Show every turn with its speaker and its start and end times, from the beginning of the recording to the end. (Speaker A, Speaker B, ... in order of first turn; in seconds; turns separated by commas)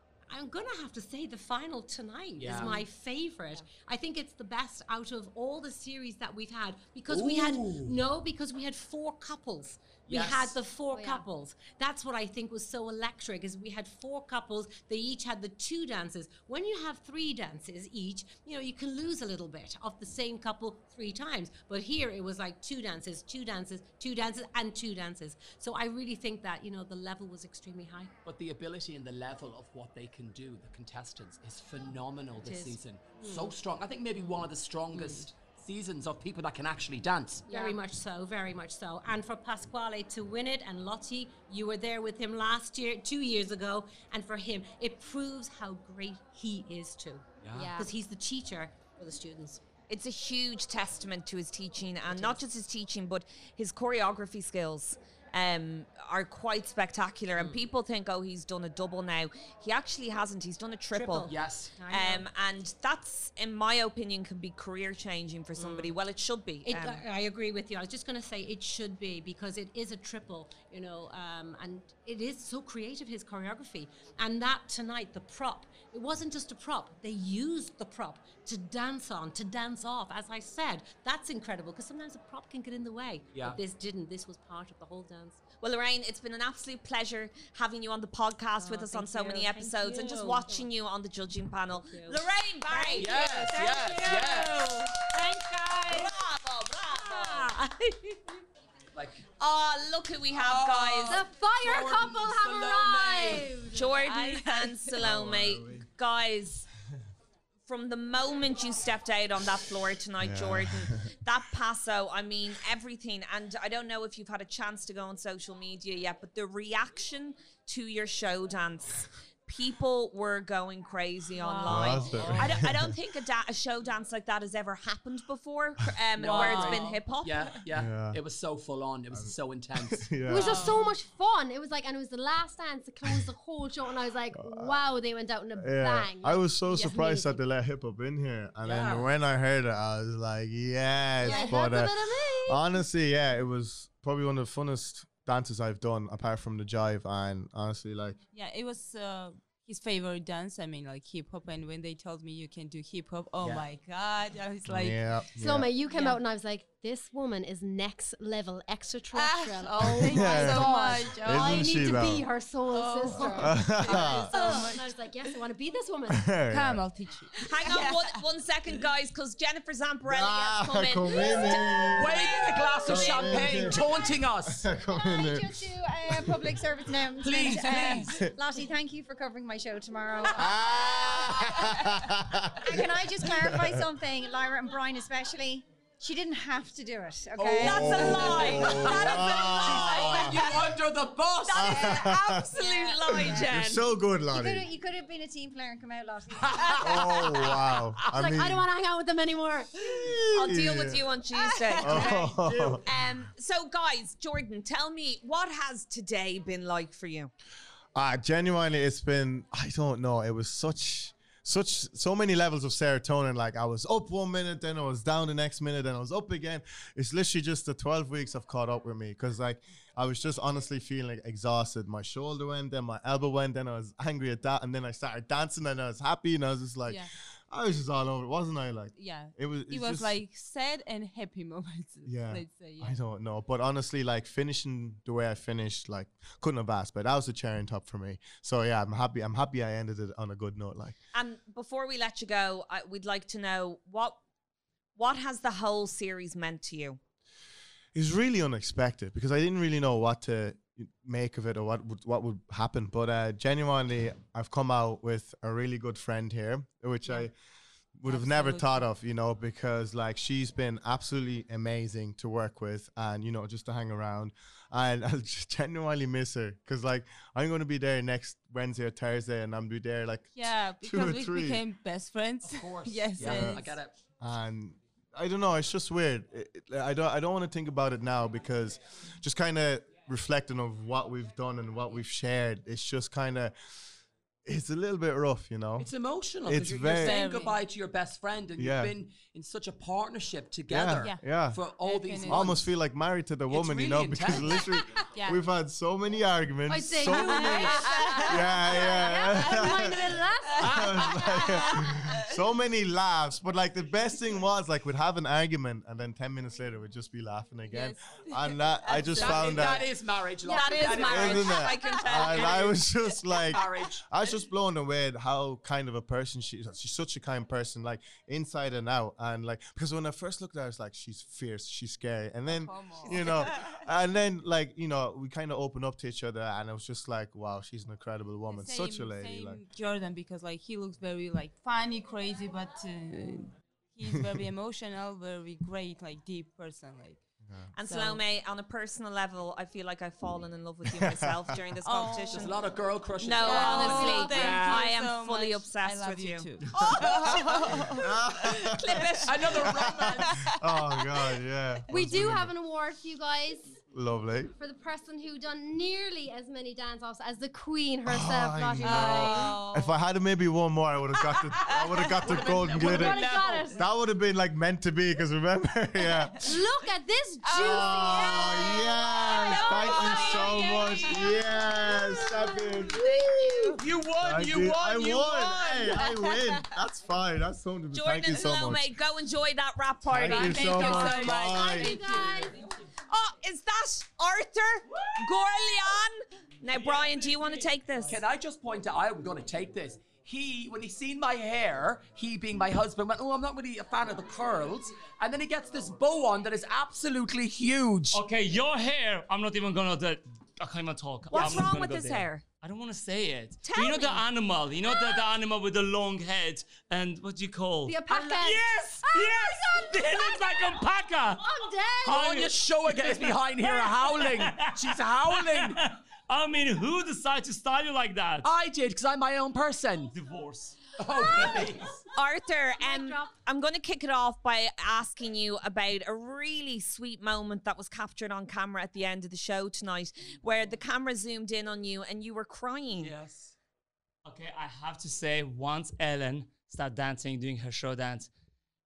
Speaker A: 0.3-28.1, Speaker B: 2.4-2.8, Speaker B: 7.1-8.0, Speaker B: 10.1-10.6, Speaker C: 10.9-11.2, Speaker B: 28.2-37.5, Speaker A: 32.4-33.4, Speaker A: 34.9-35.2, Speaker C: 37.5-37.8, Speaker A: 37.5-49.6, Speaker B: 47.4-47.8, Speaker C: 47.5-47.9, Speaker D: 49.9-61.3, Speaker A: 60.9-62.2, Speaker B: 61.3-61.7, Speaker D: 61.9-67.0, Speaker A: 65.6-65.9, Speaker A: 66.7-85.4, Speaker D: 85.6-93.2, Speaker A: 88.6-90.7, Speaker A: 91.9-96.1, Speaker B: 93.0-94.8, Speaker D: 95.9-97.5, Speaker A: 97.0-98.2, Speaker B: 98.9-99.2, Speaker D: 99.3-101.2, Speaker B: 100.3-103.6, Speaker C: 101.1-104.0, Speaker D: 103.7-106.7, Speaker E: 104.0-105.0, Speaker F: 105.0-105.8, Speaker D: 107.7-127.5, Speaker F: 110.2-111.1, Speaker E: 121.4-122.6, Speaker F: 121.7-123.0, Speaker E: 126.2-127.6, Speaker B: 126.2-130.1, Speaker F: 127.7-128.2, Speaker F: 129.1-130.7, Speaker C: 130.2-137.3, Speaker E: 130.3-130.9, Speaker F: 134.3-134.8, Speaker F: 135.6-148.2, Speaker B: 138.6-139.1, Speaker E: 141.2-141.7, Speaker C: 141.2-142.8, Speaker E: 148.3-155.2, Speaker B: 153.4-153.7, Speaker F: 154.6-155.7, Speaker C: 155.4-166.3, Speaker E: 155.8-156.2, Speaker E: 159.1-162.1, Speaker F: 159.8-162.3, Speaker E: 162.7-165.4, Speaker F: 163.2-164.4, Speaker F: 166.1-166.8, Speaker E: 166.5-168.2, Speaker D: 167.5-173.3, Speaker F: 170.0-172.2, Speaker B: 171.8-174.7, Speaker F: 172.8-176.6, Speaker C: 174.9-175.5, Speaker G: 175.2-181.9, Speaker B: 177.2-178.3, Speaker F: 178.0-178.3, Speaker F: 180.3-183.9, Speaker B: 181.2-181.6, Speaker G: 182.6-190.3, Speaker B: 187.4-192.1, Speaker F: 187.6-190.5, Speaker D: 187.6-190.5, Speaker D: 191.5-193.8, Speaker F: 191.6-192.5, Speaker G: 192.0-193.5, Speaker F: 193.1-194.7, Speaker G: 194.3-197.2, Speaker B: 196.3-198.1, Speaker F: 196.8-198.7, Speaker C: 198.1-199.9, Speaker F: 199.7-201.0, Speaker D: 200.3-207.3, Speaker E: 201.5-202.3, Speaker F: 201.8-202.8, Speaker F: 207.9-230.2, Speaker E: 226.9-227.1, Speaker E: 228.9-233.0, Speaker F: 232.1-241.0, Speaker D: 241.1-244.2, Speaker D: 244.9-247.0, Speaker F: 247.9-257.3, Speaker F: 258.0-271.6, Speaker E: 258.1-258.9, Speaker E: 270.3-273.8, Speaker B: 272.4-273.9, Speaker F: 273.2-273.7, Speaker F: 274.2-283.5, Speaker F: 284.4-285.9, Speaker B: 285.8-292.6, Speaker F: 286.4-287.2, Speaker E: 286.9-287.6, Speaker F: 288.6-288.9, Speaker F: 290.7-291.6, Speaker E: 291.0-292.5, Speaker F: 292.2-309.9, Speaker B: 293.5-294.7, Speaker E: 295.1-295.4, Speaker C: 296.7-301.9, Speaker E: 297.0-302.4, Speaker E: 307.7-309.9, Speaker B: 309.1-311.6, Speaker C: 310.4-310.8, Speaker D: 310.4-312.8, Speaker F: 311.0-329.6, Speaker B: 312.2-312.7, Speaker B: 313.4-314.4, Speaker E: 322.4-323.7, Speaker E: 328.5-337.2, Speaker D: 337.8-342.5, Speaker E: 337.8-338.2, Speaker F: 340.9-341.5, Speaker E: 341.8-342.5, Speaker B: 342.3-344.9, Speaker D: 343.2-347.6, Speaker E: 343.4-349.1, Speaker F: 346.8-347.1, Speaker F: 347.9-352.5, Speaker D: 348.6-349.4, Speaker B: 349.2-350.3, Speaker E: 349.7-351.2, Speaker C: 351.9-353.8, Speaker F: 353.9-354.5, Speaker C: 354.6-359.6, Speaker F: 358.0-366.5, Speaker E: 358.8-359.9, Speaker E: 361.2-363.6, Speaker B: 362.2-363.7, Speaker C: 362.8-363.8, Speaker E: 366.0-366.4, Speaker C: 366.4-372.9, Speaker E: 367.4-372.5, Speaker F: 367.5-379.0, Speaker D: 369.6-370.7, Speaker B: 373.7-375.9, Speaker E: 375.7-376.7, Speaker D: 377.9-381.3, Speaker F: 380.1-381.9, Speaker E: 380.2-382.6, Speaker C: 380.8-382.6, Speaker D: 383.1-388.2, Speaker B: 388.1-398.2, Speaker H: 398.1-418.5, Speaker D: 401.3-402.4, Speaker D: 403.6-404.2, Speaker C: 407.9-410.8, Speaker C: 411.4-412.3, Speaker B: 412.0-415.8, Speaker B: 418.4-420.1, Speaker H: 420.1-420.9, Speaker B: 421.0-422.0, Speaker D: 422.1-433.1, Speaker C: 422.8-423.3, Speaker B: 433.0-433.5, Speaker H: 434.2-438.3